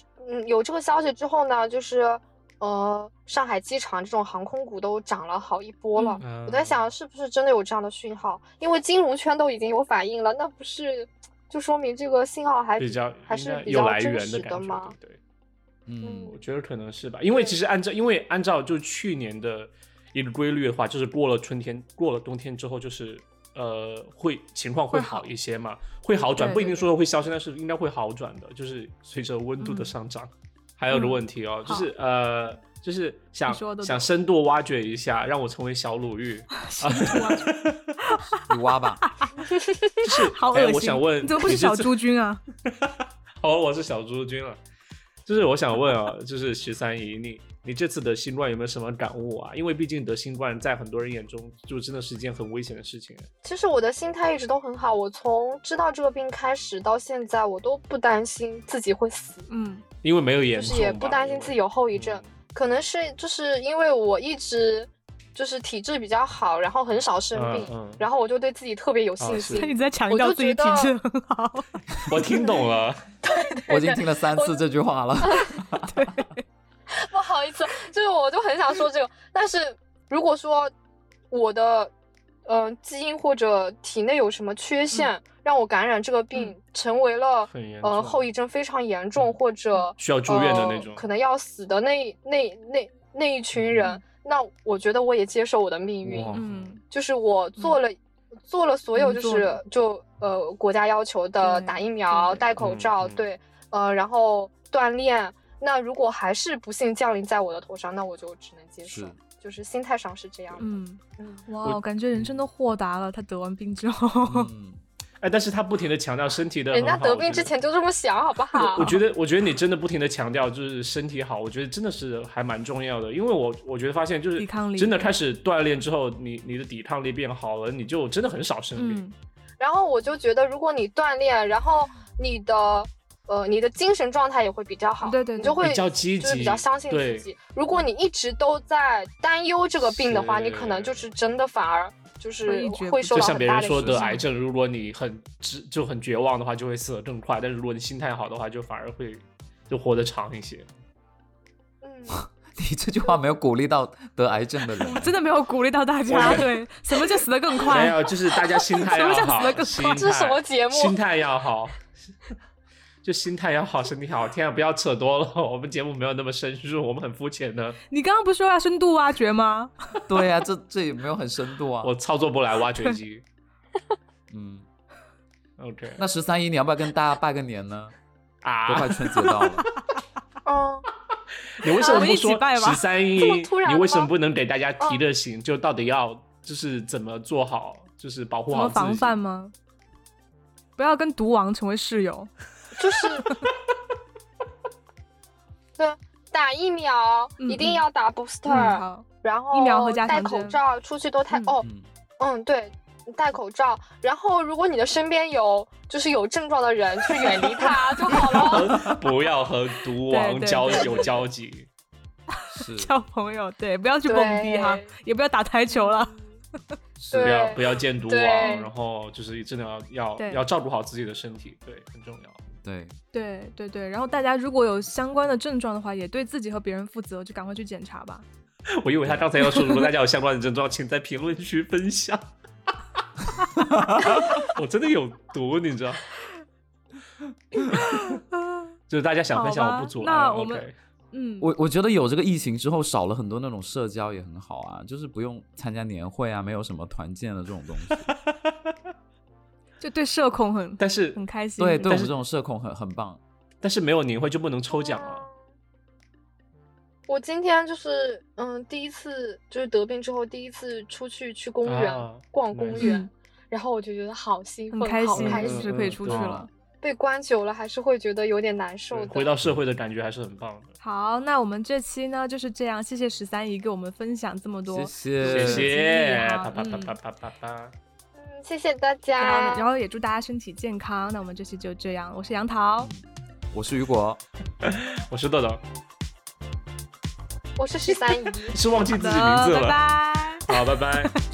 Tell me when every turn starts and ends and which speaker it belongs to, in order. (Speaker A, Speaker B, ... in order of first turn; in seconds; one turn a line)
Speaker A: 0.2-14.9
Speaker B: 6.0-6.2
Speaker C: 6.2-6.8
Speaker C: 12.8-15.2
Speaker D: 15.9-16.3
Speaker A: 16.0-16.4
Speaker C: 16.2-37.9
Speaker B: 24.9-25.3
Speaker B: 26.4-26.8
Speaker B: 29.6-29.9
Speaker B: 30.9-31.9
Speaker B: 33.5-34.1
Speaker B: 36.6-37.5
Speaker B: 38.0-39.3
Speaker D: 38.5-39.0
Speaker B: 40.0-42.4
Speaker C: 40.0-41.9
Speaker C: 42.7-44.6
Speaker C: 45.3-53.3
Speaker A: 53.4-59.5
Speaker B: 59.5-59.8
Speaker C: 60.0-62.3
Speaker A: 60.5-70.9
Speaker C: 67.3-68.0
Speaker C: 69.2-69.7
Speaker B: 69.3-71.8
Speaker C: 72.0-73.0
Speaker A: 73.2-74.6
Speaker D: 73.7-76.1
Speaker A: 75.2-75.5
Speaker B: 75.9-76.4
Speaker A: 76.9-80.7
Speaker A: 81.3-81.9
Speaker A: 82.5-96.4
Speaker C: 87.5-88.3
Speaker C: 90.0-91.0
Speaker C: 93.5-93.9
Speaker C: 96.0-96.7
Speaker B: 96.3-96.8
Speaker A: 96.9-110.7
Speaker B: 99.0-99.6
Speaker B: 101.4-102.5
Speaker C: 102.6-103.3
Speaker D: 108.8-109.2
Speaker B: 110.6-114.5
Speaker A: 111.2-111.5
Speaker C: 111.6-112.4
Speaker D: 114.2-114.8
Speaker C: 115.2-117.5
Speaker A: 116.7-118.9
Speaker B: 118.5-119.0
Speaker C: 118.6-129.0
Speaker B: 124.4-125.1
Speaker B: 128.8-129.1
Speaker A: 129.6-144.2
Speaker B: 135.0-135.6
Speaker C: 135.6-137.3
Speaker C: 139.8-141.1
Speaker B: 142.4-144.2
Speaker C: 143.1-150.7
Speaker A: 151.8-152.2
Speaker D: 152.1-155.1
Speaker B: 154.8-160.0
Speaker C: 156.1-156.5
Speaker C: 157.6-161.9
Speaker A: 159.7-160.9
Speaker C: 163.0-167.8
Speaker B: 167.9-169.7
Speaker D: 170.1-171.9
Speaker C: 171.8-173.2
Speaker D: 174.3-174.7
Speaker C: 175.6-176.0
Speaker D: 176.0-177.9
Speaker C: 178.4-179.7
Speaker D: 178.7-179.7
Speaker A: 180.4-180.9
Speaker C: 181.6-189.1
Speaker A: 181.8-182.1
Speaker B: 181.8-182.8
Speaker A: 183.2-184.1
Speaker B: 188.5-189.5
Speaker B: 190.8-192.3
Speaker A: 192.8-193.3
Speaker A: 195.8-201.7
Speaker B: 197.4-197.8
Speaker B: 198.5-200.6
Speaker A: 202.2-208.8
Speaker B: 207.2-208.5
Speaker C: 208.3-211.7
Speaker D: 208.7-209.0
Speaker B: 210.1-211.1
Speaker B: 212.3-216.2
Speaker D: 212.5-212.9
Speaker A: 214.1-214.9
Speaker D: 217.0-217.5
Speaker A: 217.1-218.6
Speaker C: 217.2-222.4
Speaker B: 218.4-218.7
Speaker B: 220.2-220.4
Speaker D: 222.6-222.9
Speaker B: 223.1-228.2
Speaker C: 228.7-232.3
Speaker B: 229.5-229.9
Speaker C: 233.5-236.1
Speaker D: 233.6-234.2
Speaker C: 237.7-238.2
Speaker B: 237.7-238.6
Speaker C: 238.9-240.7
Speaker B: 239.3-241.5
Speaker D: 241.4-248.1
Speaker C: 248.3-248.7
Speaker B: 249.8-252.0
Speaker C: 250.8-251.2
Speaker D: 251.6-253.2
Speaker C: 251.8-252.1
Speaker C: 253.6-255.3
Speaker A: 254.7-255.3
Speaker A: 257.1-265.7
Speaker C: 261.7-262.9
Speaker B: 262.8-263.1
Speaker B: 264.7-266.5
Speaker C: 265.1-266.4
Speaker D: 265.9-266.5
Speaker A: 266.8-269.3
Speaker C: 268.9-270.7
Speaker B: 270.8-276.9
Speaker D: 274.7-275.7
Speaker C: 275.2-277.7
Speaker A: 278.2-279.7
Speaker B: 279.2-282.9
Speaker D: 282.8-284.2
Speaker C: 284.6-285.6
Speaker A: 287.6-288.6
Speaker C: 288.5-289.8
Speaker B: 288.8-291.2
Speaker C: 290.4-291.1